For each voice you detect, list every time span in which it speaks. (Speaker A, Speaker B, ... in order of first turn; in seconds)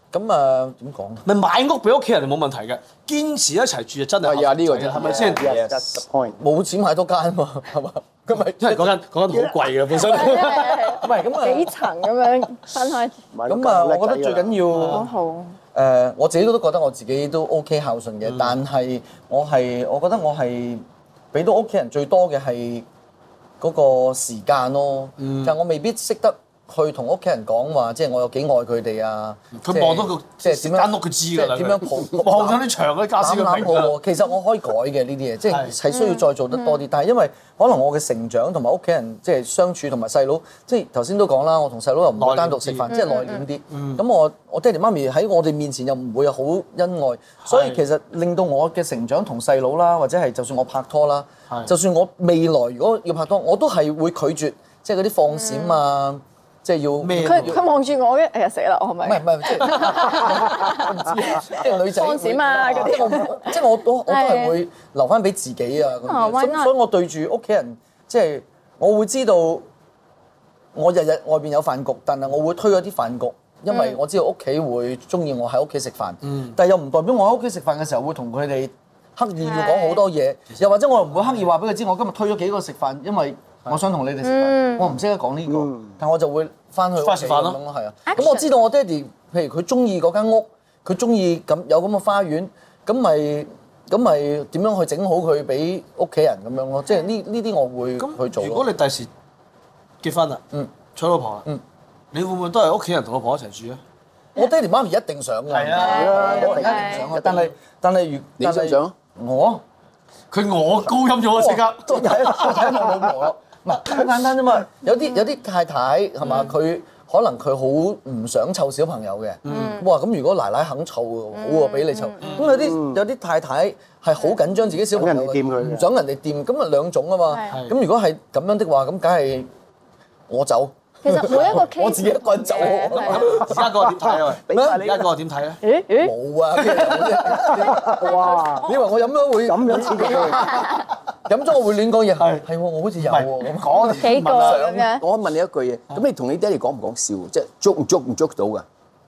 Speaker A: 0.1-1.3, 6.4-8.9, 10.9-11.7, 13.5-15.1, 15.7-22.9, 23.6-32.6, 33.2-57.6, 59.0-69.7, 70.8-98.7, 104.4-109.6, 111.3-129.5, 130.3-133.7, 134.5-134.8, 136.0-144.0
Speaker B: 1.3-5.6, 8.6-11.0, 14.7-15.0, 18.3-18.6, 25.2-25.5, 29.6-34.0, 35.5-35.8, 42.2-42.9, 43.7-44.0, 47.4-47.8, 57.0-57.6, 87.0-87.6, 98.0-99.1, 100.0-101.4, 102.1-103.8, 105.5-107.0, 110.3-112.7, 119.4-119.8, 122.2-122.7, 132.9-135.6, 142.2-142.4, 143.0-144.7
Speaker C: 4.2-5.9, 108.4-108.9, 144.3-148.7
Speaker D: 5.0-6.4, 13.3-14.6, 85.5-85.9, 105.8-107.2, 122.6-123.0, 124.9-125.9, 134.4-135.1, 137.6-138.7, 139.4-140.6
Speaker E: 10.0-13.2, 14.9-15.6, 35.9-36.8, 42.9-43.4, 55.3-55.8, 57.2-64.6, 66.0-66.7, 73.7-74.0, 79.4-80.0, 84.2-84.9, 88.1-88.5, 105.8-107.1, 116.2-116.5, 119.5-119.8, 121.3-122.4, 131.0-133.3, 135.6-136.1, 138.2-138.7, 140.2-140.8, 143.8-145.0